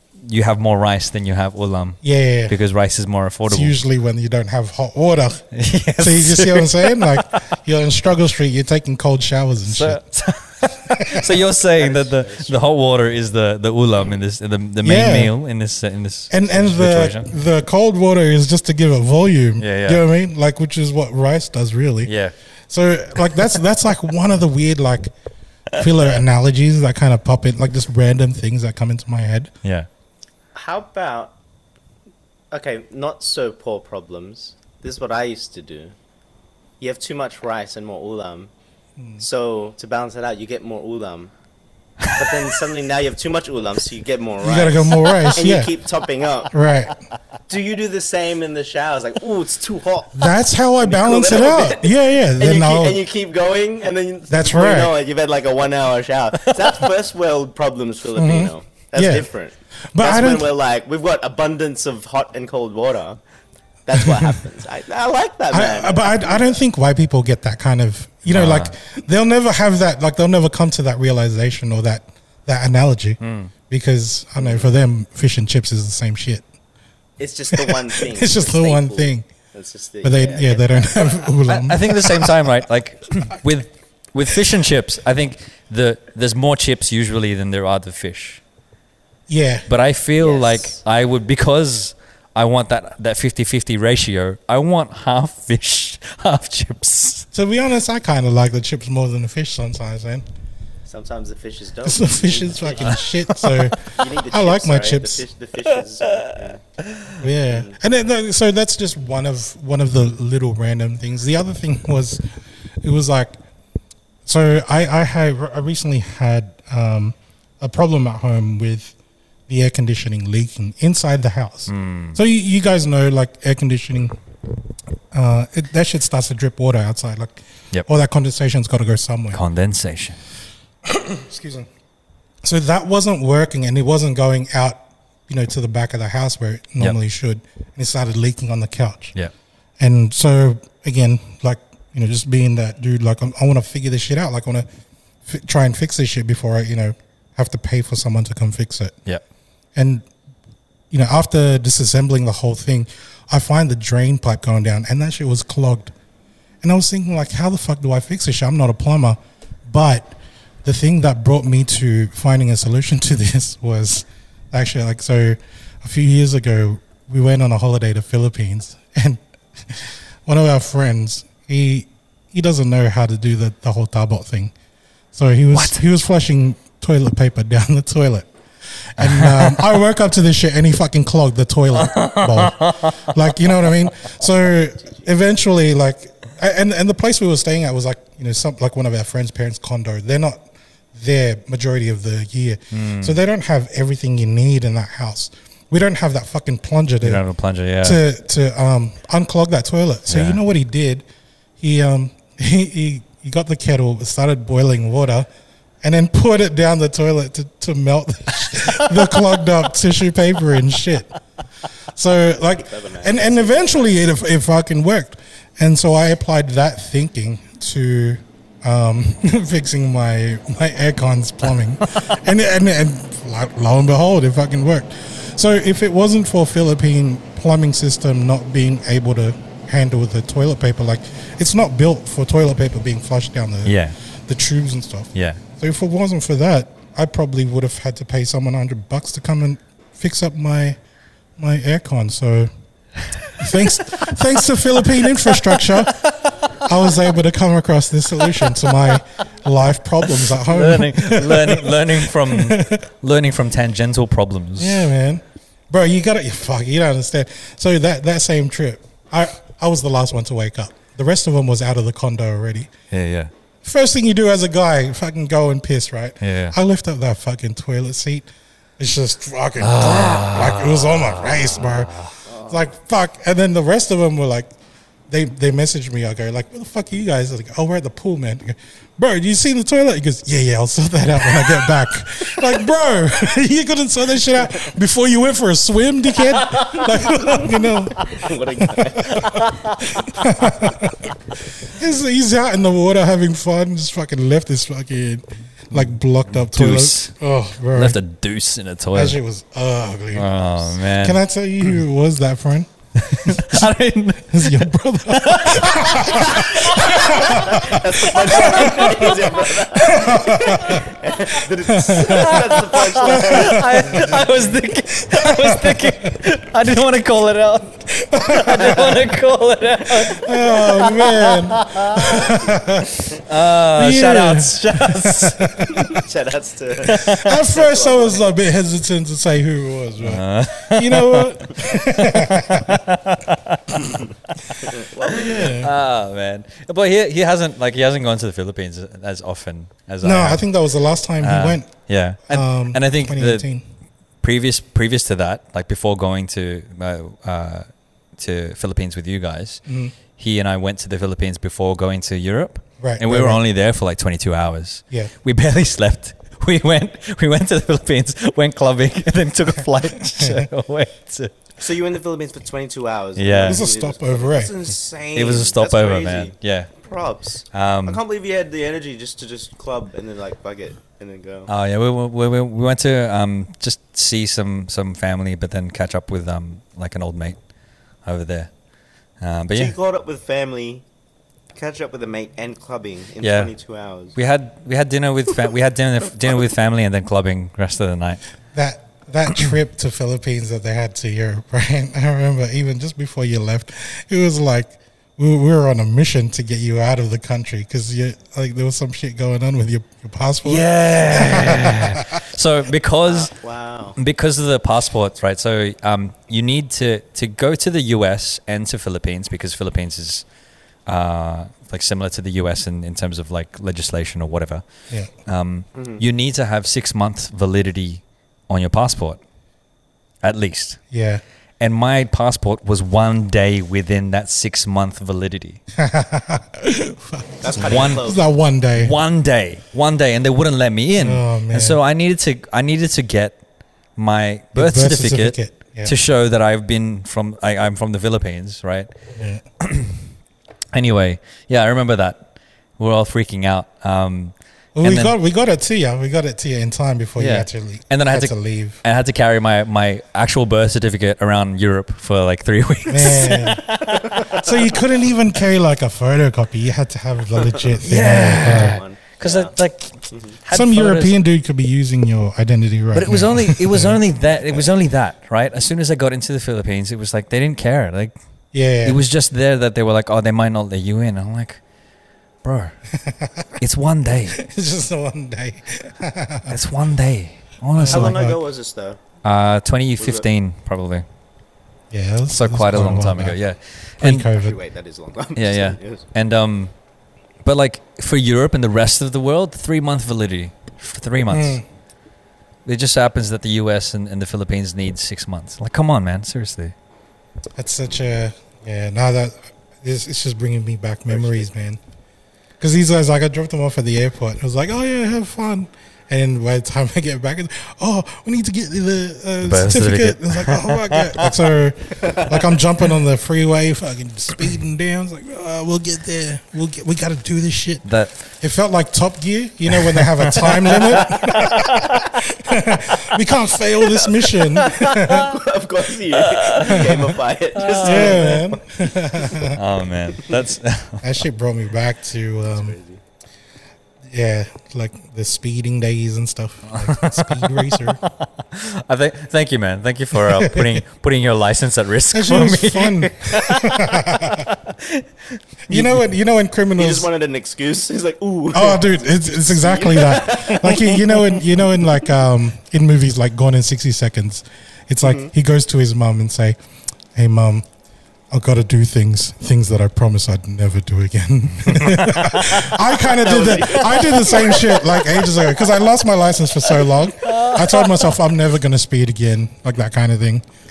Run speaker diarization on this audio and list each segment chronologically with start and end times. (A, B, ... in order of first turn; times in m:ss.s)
0:00.2-0:03.8 A
0:02.0-0:02.6 B
0:03.5-0:10.0 B
0:05.5-0:07.4 A
0:09.6-0:17.3 A
0:10.9-0:11.3 B
0:11.8-0:12.7 C
0:14.8-0:15.3 B
0:16.3-0:22.1 B
0:19.6-0:20.0 A
0:22.0-0:22.3 A
0:22.7-0:25.1 B
0:25.8-0:29.5 B
0:30.6-0:31.3 C
0:32.5-0:36.0 C
0:36.8-0:38.5 C
0:39.2-0:41.3 C
0:42.0-0:42.3 A
0:42.2-0:46.6 C
0:44.4-0:45.7 B
0:46.5-0:47.0 B
0:47.5-0:50.3 C
0:50.2-0:53.0 B
0:50.8-1:03.2 C
0:54.3-0:55.0 B
0:58.2-0:59.3 B
0:59.9-1:00.5 B
1:03.9-1:06.6 C
1:04.0-1:04.4 B
1:05.5-1:16.4 B
1:08.3-1:08.7 A
1:13.2-1:13.5 A
1:14.4-1:14.7 C
1:17.2-1:21.3 C
1:17.5-1:19.3 B
1:20.0-1:22.3 B
1:21.5-1:28.4 A
1:29.3-1:29.7 B
1:29.7-1:37.3 A
1:30.2-1:30.8 C
1:37.3-1:40.2 B
1:40.9-1:43.0 C
1:41.8-1:45.2 B
1:42.8-1:43.7 A
1:43.8-1:46.6 C
1:47.2-1:52.2 B
1:47.5-1:47.8 C
1:52.8-1:53.4 B
1:54.3-1:59.0 B
1:59.5-2:04.2 B
2:01.7-2:02.2 A
2:05.1-2:09.4 B
2:09.3-2:10.2 A
2:10.8-2:11.7 B
2:12.4-2:19.1 B
2:19.8-2:24.7 B
2:25.3-2:29.0 B
2:29.8-2:30.1 B
2:30.9-2:35.9 B
2:36.6-2:54.5 B
2:55.1-2:58.3 B
2:55.5-2:55.8 A
2:59.0-3:17.2 B
2:59.0-2:59.8 A
3:01.8-3:03.1 A
3:12.7-3:13.2 A
3:17.0-3:18.0 A
3:17.8-3:21.0 B
3:20.1-3:20.4 A
3:21.6-3:25.3 B
3:25.8-3:31.2 B
3:32.0-4:00.8 B
3:32.6-3:33.9 C
3:53.6-3:54.0 A
3:55.2-3:55.4 A
4:01.4-4:02.5 B
4:03.4-4:12.8 B
4:10.1-4:14.9 A
4:14.6-4:22.7 B
4:22.9-4:23.3 A
4:23.6-4:28.3 B
4:26.2-4:26.6 A
4:28.8-4:31.9 B
4:29.6-4:32.2 A
4:32.3-4:32.6 C
4:32.5-4:34.5 B
4:35.1-4:58.0 B
4:48.0-4:49.5 C
4:49.1-4:50.3 A
4:55.8-4:57.2 A
4:57.7-4:59.2 A
4:58.9-5:03.7 B
5:00.1-5:01.2 A
5:03.0-5:10.9 A
5:04.3-5:09.2 B
5:06.6-5:14.2 C
5:09.8-5:10.9 B
5:11.7-5:14.1 B
5:12.0-5:22.3 A
5:15.1-5:15.9 B
5:18.0-5:19.0 B
5:20.1-5:23.0 B
5:22.1-5:22.6 C
5:23.2-5:25.5 A
5:23.7-5:26.0 B
5:25.7-5:28.3 C
5:26.9-5:27.4 A
5:26.9-5:32.8 B
5:30.0-5:33.8 A
5:34.4-5:40.5 A
5:34.7-5:35.6 C
5:35.1-5:35.7 B
5:40.0-5:41.7 B
5:41.2-5:43.5 A
5:42.3-5:43.6 B
5:44.2-5:49.6 A
5:49.7-5:49.9 B
5:50.1-6:01.3 A
5:52.8-5:53.4 B
6:00.2-6:00.5 B
6:01.6-6:11.5 C
6:03.2-6:03.6 A
6:03.4-6:04.5 B
6:05.2-6:06.7 A
6:07.5-6:08.0 A
6:11.5-6:17.4 A
6:18.0-6:18.5 A
6:19.2-6:19.8 A
6:19.6-6:20.8 C
6:21.6-6:24.2 C
6:23.2-6:23.5 A
6:24.2-6:28.2 A
6:28.5-6:42.2 B
6:40.4-6:43.3 A
6:43.1-6:44.0 C
6:44.0-6:50.3 A
6:50.9-6:54.7 A
6:55.2-6:59.2 A
7:00.2-7:00.8 A
7:00.9-7:01.2 B
7:01.6-7:05.6 A
7:05.8-7:09.0 B
7:07.4-7:08.2 C
7:07.6-7:08.0 A
7:08.8-7:13.4 A
7:11.0-7:11.8 B
7:14.0-7:18.9 A
7:14.6-7:15.9 B
7:19.2-7:19.4 B
7:19.6-7:20.0 A
7:20.7-7:25.2 A
7:24.8-7:28.8 B
7:27.2-7:34.5 A
7:32.9-7:38.8 B
7:34.0-7:34.3 C
7:37.8-7:41.2 A
7:38.2-7:39.5 C
7:40.1-7:40.4 C
7:40.5-7:44.0 B
7:42.9-7:48.2 A
7:48.5-7:49.0 B
7:48.8-7:51.6 A
7:52.4-7:52.8 A
7:53.0-7:53.5 B
7:53.6-7:54.4 A
7:54.3-7:56.5 B
7:56.5-7:58.2 A
7:57.8-7:58.4 B
7:57.9-7:59.0 C
7:59.2-8:01.0 A
8:00.0-8:00.2 C
8:01.9-8:03.4 B
8:02.3-8:04.3 A
8:04.0-8:04.6 B
8:04.3-8:06.0 C
8:05.4-8:06.7 A
8:07.4-8:11.6 A
8:11.3-8:11.6 B
8:12.7-8:16.7 A
8:17.6-8:21.8 B
8:21.1-8:21.5 C
8:22.6-8:37.8 B
8:29.4-8:31.4 A
8:37.8-8:38.2 A
8:38.4-8:45.3 B
8:39.7-8:42.1 A
8:44.0-8:49.4 C
8:44.6-8:45.2 A
8:46.2-8:46.9 A
8:46.6-8:47.1 B
8:47.6-8:48.3 A
8:47.8-8:49.6 B
8:49.5-8:51.0 A
8:51.0-8:52.8 B
8:52.5-8:53.0 C
8:54.1-8:58.0 B
8:56.7-9:06.0 A
9:00.2-9:00.8 B
9:02.1-9:04.5 B
9:05.7-9:07.1 B
9:06.8-9:12.1 C
9:08.5-9:16.6 B
9:15.0-9:15.3 C
9:17.2-9:17.6 B
9:18.3-9:30.4 B
9:21.6-9:22.6 A
9:23.1-9:25.6 C
9:27.2-9:27.9 A